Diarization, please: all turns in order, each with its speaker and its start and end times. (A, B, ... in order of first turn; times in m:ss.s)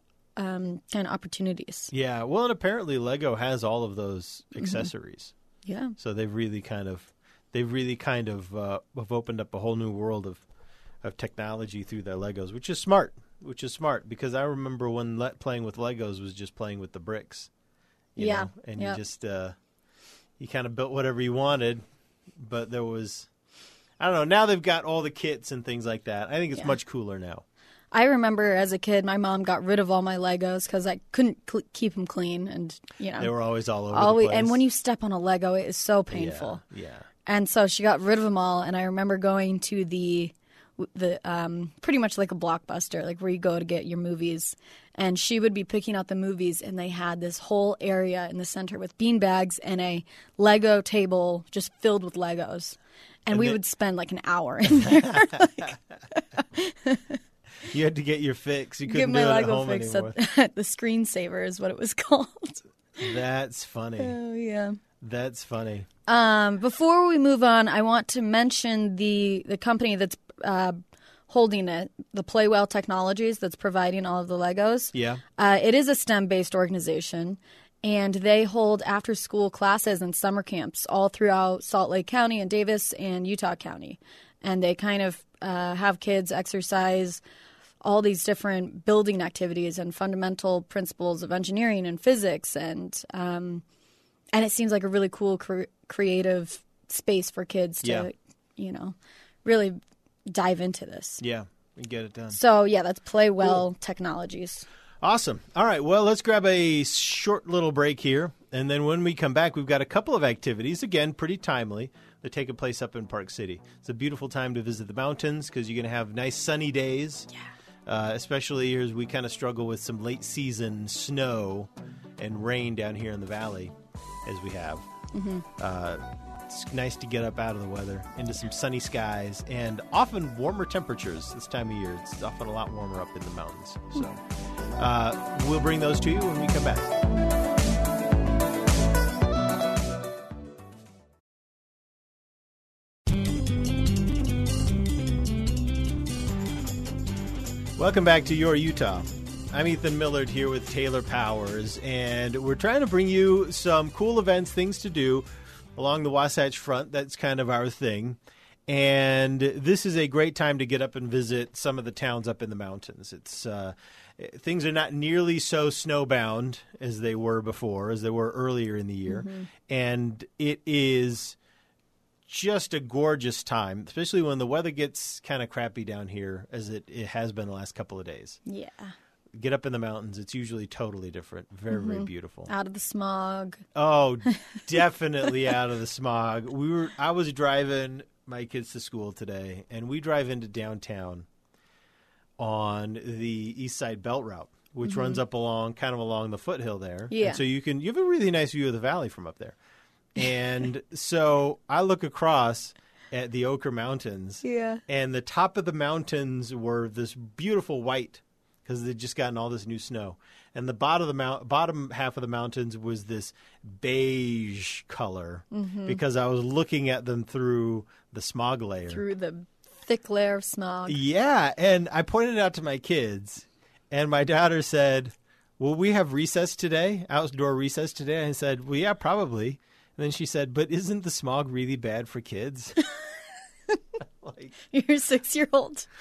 0:00.4-0:01.9 A
0:01.9-0:05.3 B
0:04.6-0:04.9 A
0:05.6-0:05.9 A
0:06.0-0:10.4 B
0:11.0-0:17.5 B
0:18.1-0:19.6 B
0:18.2-0:19.0 A
0:20.4-0:21.8 B
0:22.4-0:23.3 B
0:24.0-0:27.4 B
0:27.9-0:33.3 A
0:33.2-0:34.6 B
0:33.9-0:36.6 A
0:36.1-0:37.1 B
0:37.2-0:57.2 A
0:53.3-0:53.6 B
0:54.7-0:55.6 B
0:57.6-1:00.2 B
0:58.8-1:02.6 A
1:03.0-1:04.2 B
1:04.0-1:04.8 A
1:05.0-1:05.8 B
1:06.0-1:10.8 A
1:11.3-1:27.2 A
1:14.9-1:15.2 B
1:27.8-1:33.6 A
1:34.3-1:41.2 A
1:37.8-1:38.1 B
1:41.2-1:42.4 B
1:42.3-1:44.6 A
1:45.0-1:57.3 B
1:57.8-2:03.7 B
2:04.2-2:04.9 B
2:05.1-2:05.4 A
2:05.6-2:14.2 B
2:14.8-2:16.9 B
2:27.8-2:51.4 B
2:49.1-2:49.5 A
2:52.3-2:58.4 B
2:58.4-2:58.9 A
2:59.4-3:02.5 B
3:01.7-3:03.6 A
3:03.7-3:11.2 B
3:04.3-3:04.6 A
3:12.4-3:19.6 B
3:14.8-3:15.2 A
3:17.1-3:17.4 A
3:20.1-3:39.0 B
3:24.4-3:24.8 A
3:35.5-3:36.0 A
3:38.9-3:41.0 A
3:40.9-3:52.8 B
3:54.2-3:54.5 B
3:54.6-3:55.9 A